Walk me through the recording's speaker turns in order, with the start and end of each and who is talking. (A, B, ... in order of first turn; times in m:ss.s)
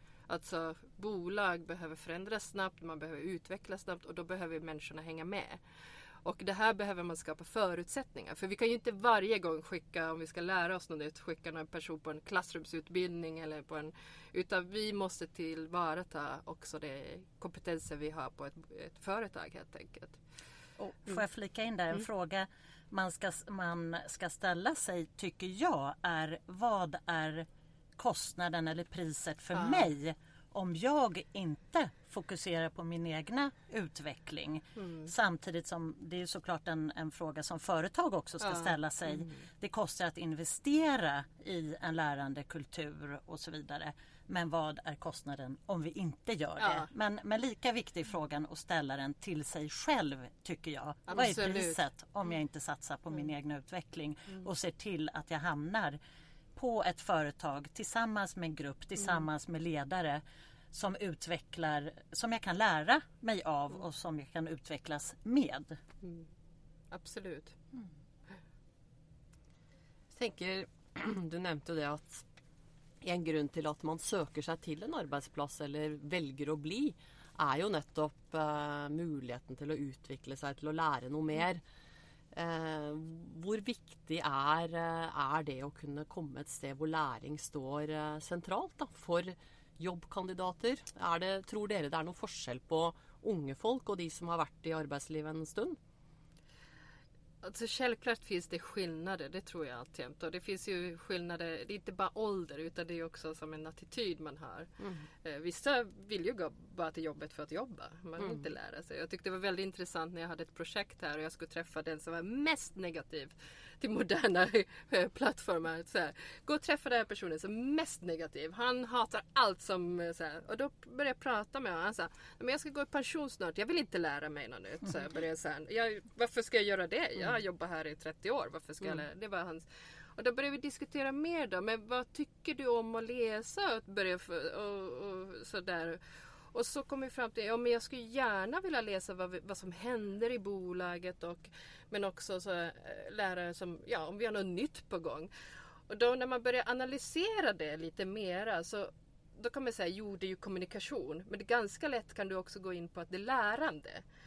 0:00.3-0:05.6 A
0:06.2-0:20.2 A
0:20.8-0:56.0 B
0:29.6-0:29.9 A
0:34.8-0:35.1 A
0:38.4-0:38.7 A
0:46.6-0:46.9 A
0:51.1-0:51.8 A
0:56.6-1:05.8 B
1:06.9-1:07.6 A
1:10.1-1:12.2 C
1:13.0-1:21.6 C
1:22.3-1:35.8 C
1:37.4-1:44.7 A
1:44.8-1:45.1 C
1:45.2-2:09.6 A
2:10.2-2:25.3 A
2:25.9-2:34.0 A